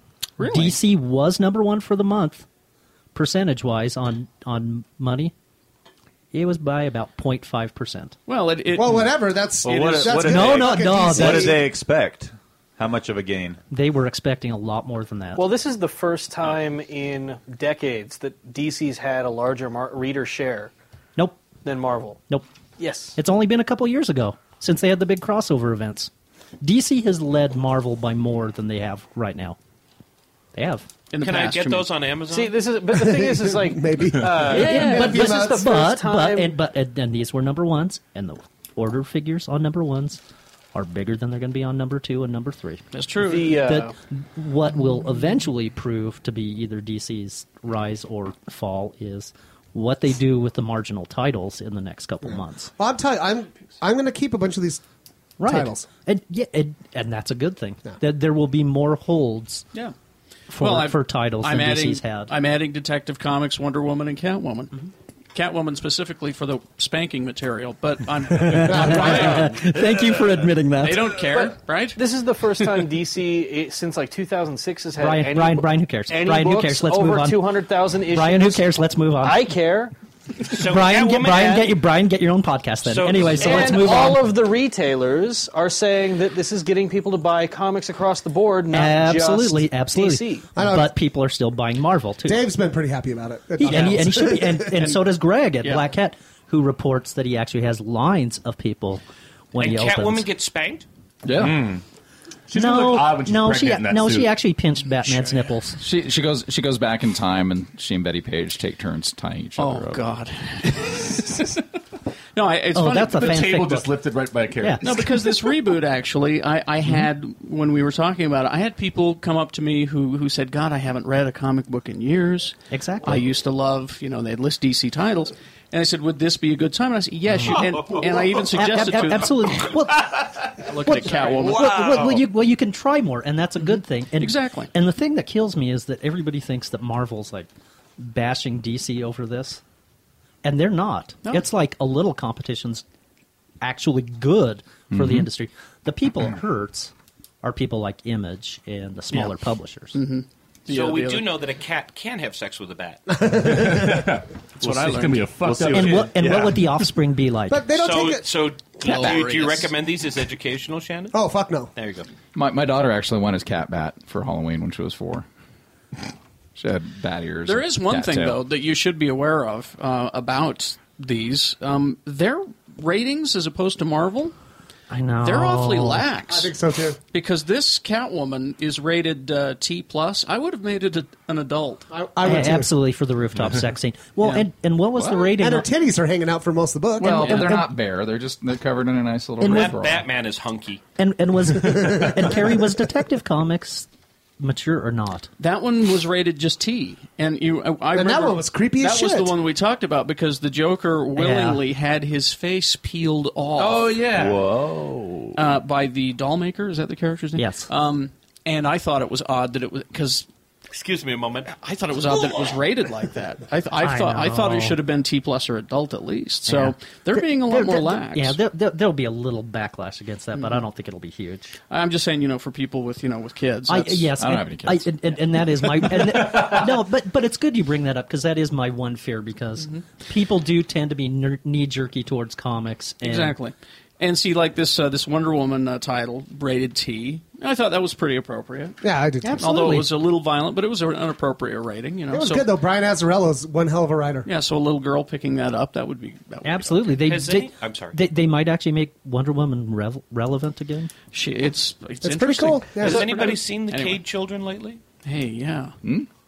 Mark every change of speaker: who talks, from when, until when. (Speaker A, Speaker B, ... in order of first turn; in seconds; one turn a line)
Speaker A: 0.4-0.8
Speaker B: 0.4-2.5
Speaker B: 3.1-5.3
Speaker B: 6.3-8.2
Speaker A: 8.3-9.1
Speaker C: 8.8-11.7
Speaker A: 9.6-10.2
Speaker D: 9.6-13.6
Speaker B: 10.2-11.6
Speaker B: 13.7-15.4
Speaker E: 15.4-20.7
Speaker B: 21.2-21.4
Speaker E: 21.6-22.2
Speaker E: 22.8-23.2
Speaker B: 23.2-26.1
Speaker B: 26.6-29.6
Speaker B: 30.5-30.9
Speaker A: 31.1-31.9
Speaker F: 31.2-32.6
Speaker E: 32.3-36.5
Speaker C: 32.9-35.7
Speaker B: 34.4-40.2
Speaker A: 34.5-35.1
Speaker B: 40.7-42.8
Speaker A: 42.9-43.6
Speaker E: 43.2-43.9
Speaker B: 43.5-52.7
Speaker C: 52.3-54.8
Speaker B: 55.4-59.7
Speaker C: 55.4-55.9
Speaker B: 60.5-62.3
Speaker A: 60.5-64.8
Speaker A: 65.3-69.6
Speaker B: 68.3-71.2
Speaker C: 68.7-69.6
Speaker A: 70.8-72.0
Speaker E: 71.3-79.9
Speaker B: 75.0-79.5
Speaker F: 80.5-81.8
Speaker B: 80.5-84.3
Speaker F: 82.9-83.9
Speaker E: 83.2-90.5
Speaker B: 88.7-92.5
Speaker C: 90.6-91.0
Speaker C: 92.3-94.8
Speaker B: 93.6-100.3
Speaker A: 93.6-95.0
Speaker F: 99.6-100.9
Speaker G: 101.2-101.7
Speaker H: 101.3-101.8
Speaker H: 102.5-104.3
Speaker B: 102.5-105.8
Speaker G: 105.8-110.1
Speaker A: 109.6-111.6
Speaker A: 112.3-113.5
Speaker B: 112.7-113.9
Speaker H: 113.1-115.4
Speaker B: 114.6-114.8
Speaker A: 114.8-129.6
Speaker B: 122.7-123.2
Speaker B: 127.3-127.9
Speaker B: 128.5-139.6
Speaker A: 130.7-131.7
Speaker A: 133.6-134.7
Speaker B: 140.4-142.8
Speaker B: 143.6-146.9
Speaker G: 144.9-145.3
Speaker B: 147.4-150.0
Speaker A: 149.9-151.3
Speaker F: 150.7-153.0
Speaker C: 153.1-154.1
Speaker H: 153.3-156.9
Speaker A: 154.6-155.6
Speaker D: 155.4-156.3
Speaker B: 155.7-157.8
Speaker C: 157.5-158.3
Speaker F: 157.8-161.2
Speaker A: 158.8-159.7
Speaker C: 161.1-161.7
Speaker F: 161.8-162.1
Speaker G: 162.3-165.3
Speaker G: 166.6-168.4
Speaker A: 167.5-174.3
Speaker B: 174.9-176.1
Speaker A: 175.2-176.5
Speaker C: 176.3-177.0
Speaker A: 177.1-181.9
Speaker C: 181.9-182.8
Speaker B: 182.2-185.7
Speaker A: 184.2-184.5
Speaker C: 185.2-187.6
Speaker G: 187.0-190.1
Speaker B: 187.1-187.7
Speaker B: 189.4-189.8
Speaker F: 189.4-190.8
Speaker B: 191.0-193.9
Speaker B: 194.4-195.3
Speaker A: 195.4-203.9
Speaker C: 197.9-199.3
Speaker B: 201.2-201.6
Speaker H: 203.6-204.5
Speaker D: 204.1-205.4
Speaker A: 205.3-210.3
Speaker B: 207.4-207.7
Speaker F: 210.7-211.6
Speaker A: 211.6-218.4
Speaker F: 212.1-212.6
Speaker B: 213.8-214.8
Speaker B: 216.5-221.6
Speaker A: 221.7-224.1
Speaker B: 223.7-233.4
Speaker G: 224.2-224.9
Speaker A: 233.0-238.8
Speaker C: 238.8-239.6
Speaker B: 239.2-240.0
Speaker A: 239.4-242.5
Speaker C: 242.1-244.3
Speaker A: 244.3-247.1
Speaker B: 246.4-250.9
Speaker F: 247.0-248.0
Speaker A: 251.1-254.0
Speaker C: 252.0-253.3
Speaker F: 252.8-254.8
Speaker A: 255.1-255.8
Speaker G: 255.8-256.1